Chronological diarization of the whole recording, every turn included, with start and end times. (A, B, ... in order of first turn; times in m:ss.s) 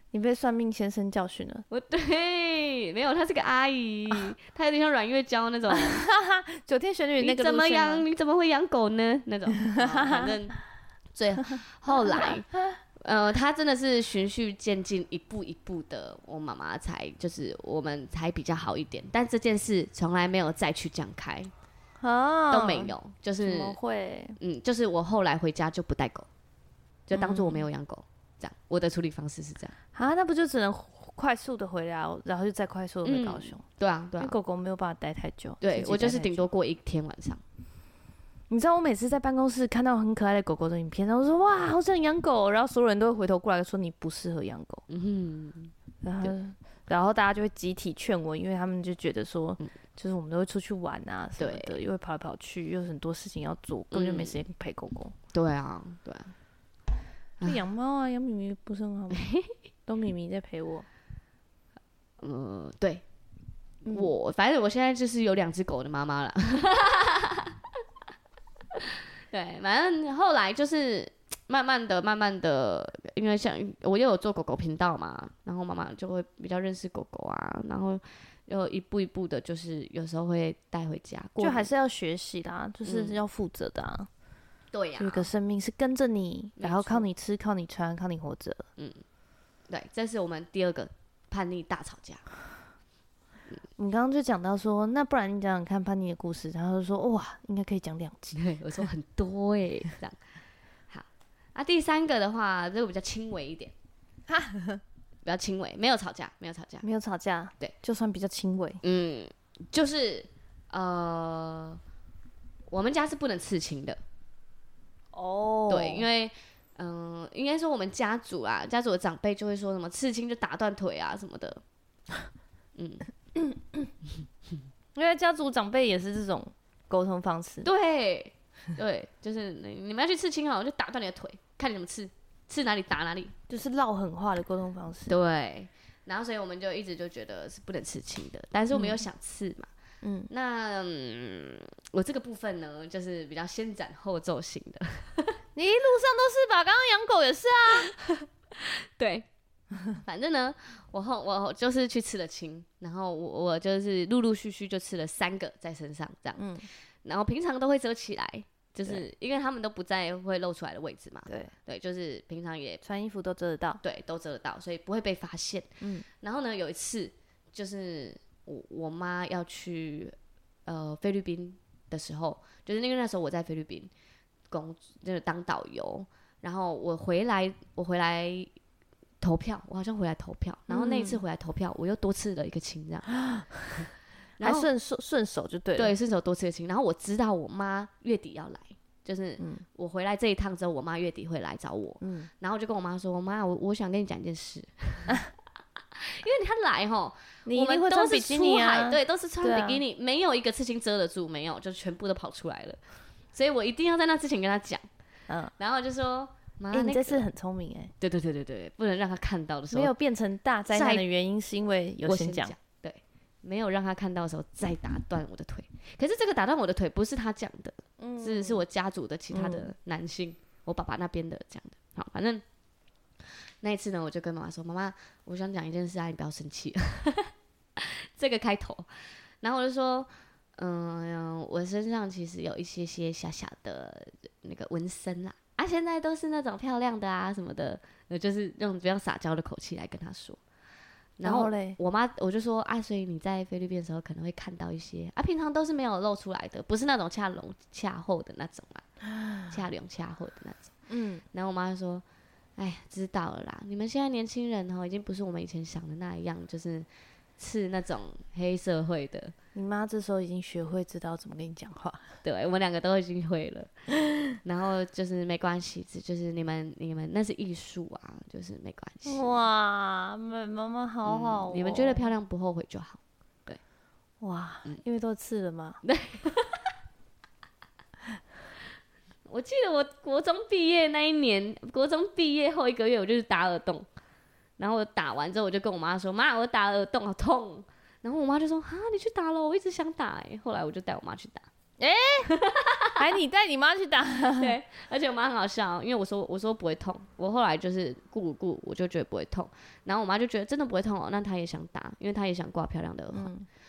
0:00.1-0:01.6 A
0:01.7-0:06.0 B
0:05.7-0:08.0 A
0:07.2-0:10.6 B
0:09.8-0:10.3 A
0:11.1-0:21.5 B
0:22.0-0:24.4 A
0:22.5-0:23.8 B
0:24.4-0:26.3 B
0:27.1-0:29.8 B
0:27.1-0:27.6 A
0:29.9-0:33.6 A
0:33.0-0:34.4 B
0:34.2-0:36.5 A
0:35.6-0:37.4 B
0:38.5-0:44.8 A
0:44.9-0:46.3 B
0:46.0-0:55.2 A
0:51.4-0:51.8 B
0:53.9-0:54.4 B
0:55.3-0:56.3 B
0:57.4-0:59.3 A
0:59.2-0:59.5 B
0:59.9-1:00.9 A
1:02.2-1:03.0 B
1:03.8-1:07.6 B
1:08.7-1:21.7 B
1:21.4-1:24.1 A
1:22.8-1:23.2 B
1:24.7-1:25.3 B
1:25.0-1:28.7 A
1:26.6-1:27.1 B
1:28.8-1:29.0 B
1:29.7-1:32.2 B
1:33.8-1:38.4 A
1:38.3-1:40.2 B
1:40.9-1:43.7 B
1:44.3-1:44.8 A
1:45.2-1:46.8 B
1:46.8-1:48.8 A
1:48.8-1:51.8 B
1:52.7-1:54.0 B
1:55.1-1:56.1 A
1:55.7-2:01.6 B
2:02.8-2:03.1 B
2:03.4-2:03.9 A
2:05.0-2:07.7 A
2:07.6-2:13.4 B
2:13.5-2:15.2 A
2:15.1-2:19.7 B
2:18.7-2:19.0 A
2:20.0-2:20.3 A
2:20.3-2:25.4 B
2:25.6-2:27.9 A
2:27.9-2:29.3 B
2:30.0-2:36.5 B
2:36.4-2:36.7 A
2:37.0-2:42.8 B
2:41.3-2:41.5 A
2:42.8-2:43.8 A
2:43.8-2:50.2 B
2:45.8-2:46.1 A
2:50.7-2:53.9 B
2:54.5-2:58.5 B
2:59.2-3:03.1 B
3:00.7-3:01.2 A
3:03.2-3:03.8 A
3:04.4-3:04.7 B
3:04.4-3:05.9 A
3:05.8-3:15.2 B
3:09.4-3:09.6 A
3:12.0-3:12.3 A
3:16.0-3:22.8 B
3:17.5-3:19.8 A
3:23.3-3:24.9 B
3:25.6-3:27.2 B
3:26.7-3:27.9 A
3:28.0-3:29.9 B
3:29.7-3:32.6 A
3:30.7-3:31.0 B
3:32.0-3:42.4 B
3:38.0-3:38.6 A
3:39.3-3:39.7 A
3:43.6-3:48.9 B
3:49.4-4:00.4 B
4:01.2-4:08.9 B
4:01.2-4:01.8 A
4:09.5-4:10.7 B
4:10.9-4:11.2 A
4:11.3-4:12.0 B
4:12.6-4:19.4 B
4:19.6-4:22.2 A
4:22.2-4:23.7 B
4:24.4-4:29.3 B
4:29.0-4:32.1 A
4:31.0-4:33.6 B
4:34.2-4:35.8 A
4:35.8-4:36.7 B
4:39.3-4:43.9 B
4:44.6-4:51.5 B
4:51.8-4:52.3 A
4:52.3-4:53.1 B
4:53.0-4:54.6 A
4:54.4-5:03.3 B
5:03.1-5:03.5 A